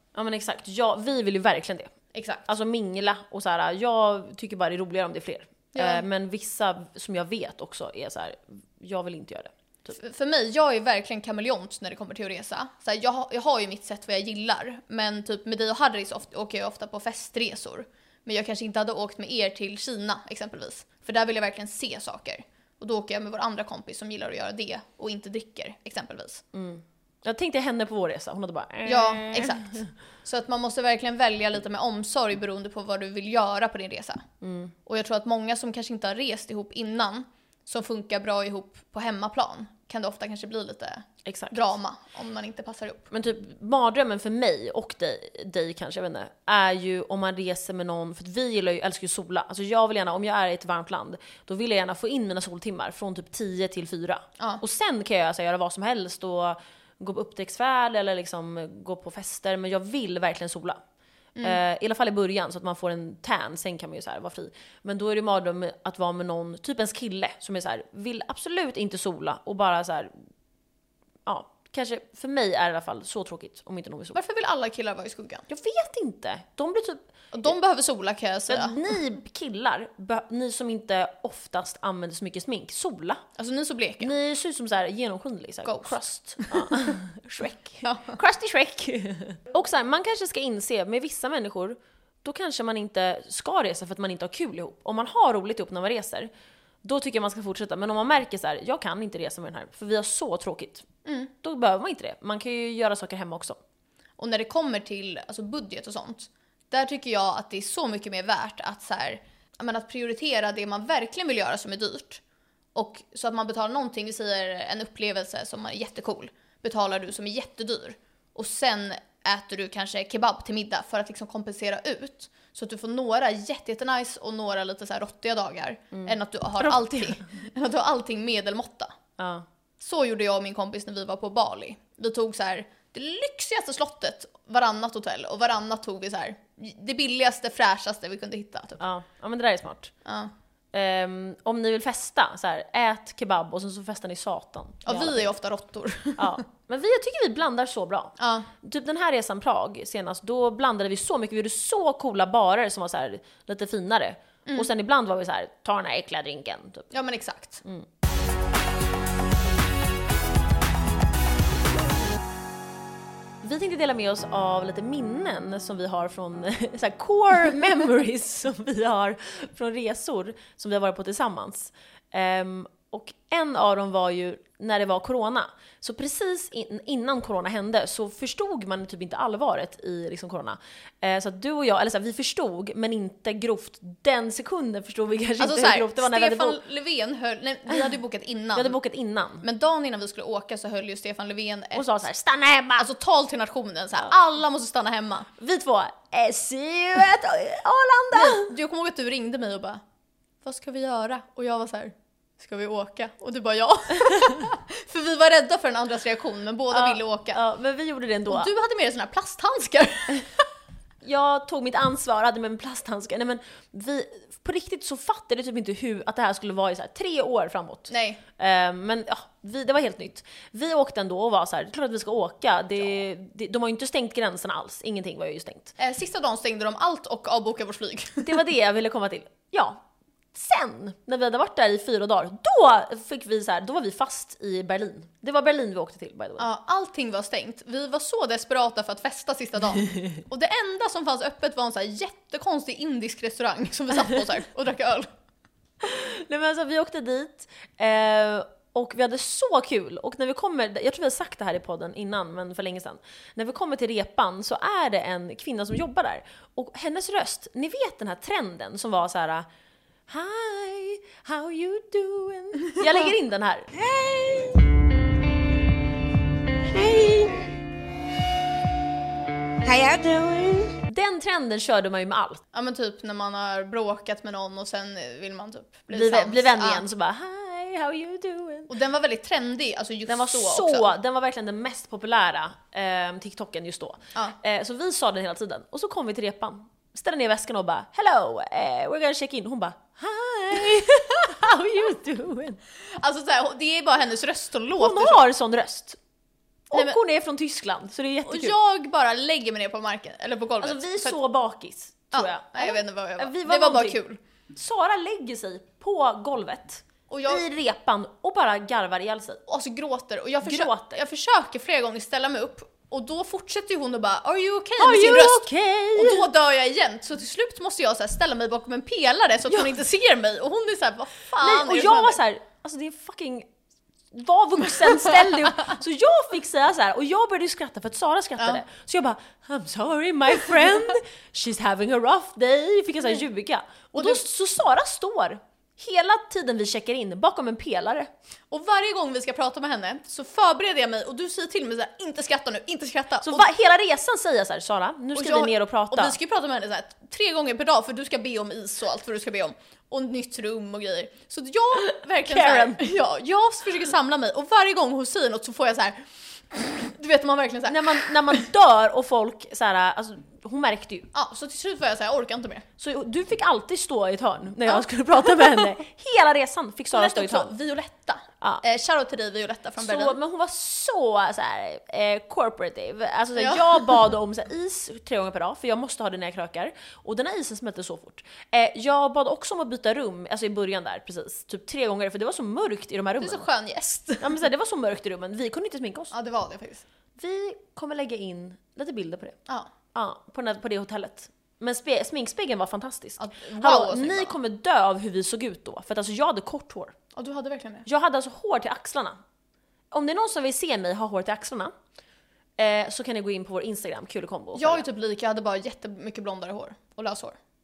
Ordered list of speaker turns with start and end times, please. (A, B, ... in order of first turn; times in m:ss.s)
0:00.1-0:01.9 A
0:02.1-0:02.5 B
0:02.5-0:10.0 A
0:05.8-0:06.1 B
0:09.9-0:26.4 B
0:26.5-0:29.9 A
0:28.8-0:34.2 B
0:34.4-0:34.7 A
0:34.9-0:43.1 B
0:41.2-0:41.6 A
0:43.1-1:00.8 A
1:01.4-1:10.1 A
1:11.3-1:14.2 A
1:14.1-1:15.4 B
1:15.5-1:17.0 A
1:17.3-1:18.8 B
1:18.5-1:23.2 A
1:23.4-1:24.1 B
1:24.0-1:36.3 A
1:25.6-1:27.0 B
1:27.8-1:28.2 B
1:36.8-1:40.9 A
1:41.0-1:41.3 B
1:41.4-1:43.6 A
1:44.2-1:52.2 B
1:52.8-2:08.9 B
2:05.9-2:07.3 A
2:09.2-2:09.5 A
2:09.8-2:18.8 B
2:18.8-2:19.9 A
2:20.0-2:20.3 B
2:20.7-2:25.4 A
2:24.9-2:26.4 B
2:26.2-2:36.9 A
2:28.2-2:28.5 B
2:36.9-2:37.6 B
2:43.4-3:06.6 A
3:05.4-3:08.8 B
3:08.5-3:09.4 A
3:09.4-3:11.9 B
3:11.7-3:12.9 A
3:12.8-3:15.3 B
3:15.4-3:18.5 A
3:18.1-3:19.8 B
3:20.4-3:27.4 B
3:26.7-3:28.5 A
3:28.3-3:30.4 B
3:31.0-3:45.7 A
3:37.9-3:38.2 B
3:45.8-3:48.4 B
3:48.2-3:49.8 A
3:50.3-3:56.5 A
3:56.4-4:05.1 B
4:05.8-4:19.5 A
4:20.1-4:23.7 A
4:23.8-4:24.6 C
4:26.7-4:27.5 C
4:29.6-4:30.8 C
4:30.9-4:32.4 A
4:32.5-4:36.8 B
4:35.9-4:38.7 A
4:38.7-4:40.9 B
4:40.1-4:52.6 A
4:53.0-4:55.2 B
4:54.8-4:56.0 A
4:56.7-4:58.6 A
4:58.2-5:01.2 B
5:00.6-5:04.0 A
5:02.1-5:04.2 B
5:04.5-5:09.4 A
5:07.1-5:07.4 B
5:09.5-5:22.2 B
5:10.4-5:11.0 A
5:14.8-5:16.2 A
5:19.5-5:19.8 A
5:21.4-5:23.5 A
5:24.1-5:38.1 A
5:38.5-5:43.5 B
5:43.2-5:46.2 A
5:45.2-5:58.5 B
5:52.2-5:52.8 A
5:57.7-6:01.1 A
6:01.1-6:02.6 B
6:02.8-6:07.5 A
6:04.7-6:05.6 B
6:06.9-6:10.2 B
6:09.8-6:23.4 A
6:13.4-6:13.9 B
6:23.2-6:24.4 B
6:24.2-6:26.1 A
6:26.1-6:26.8 B
6:27.2-6:29.4 A
6:29.9-6:37.0 A
6:33.2-6:34.4 B
6:37.2-6:37.9 B
6:37.9-6:39.2 A
6:39.9-6:41.7 A
6:42.6-6:44.8 A
6:44.6-6:47.4 B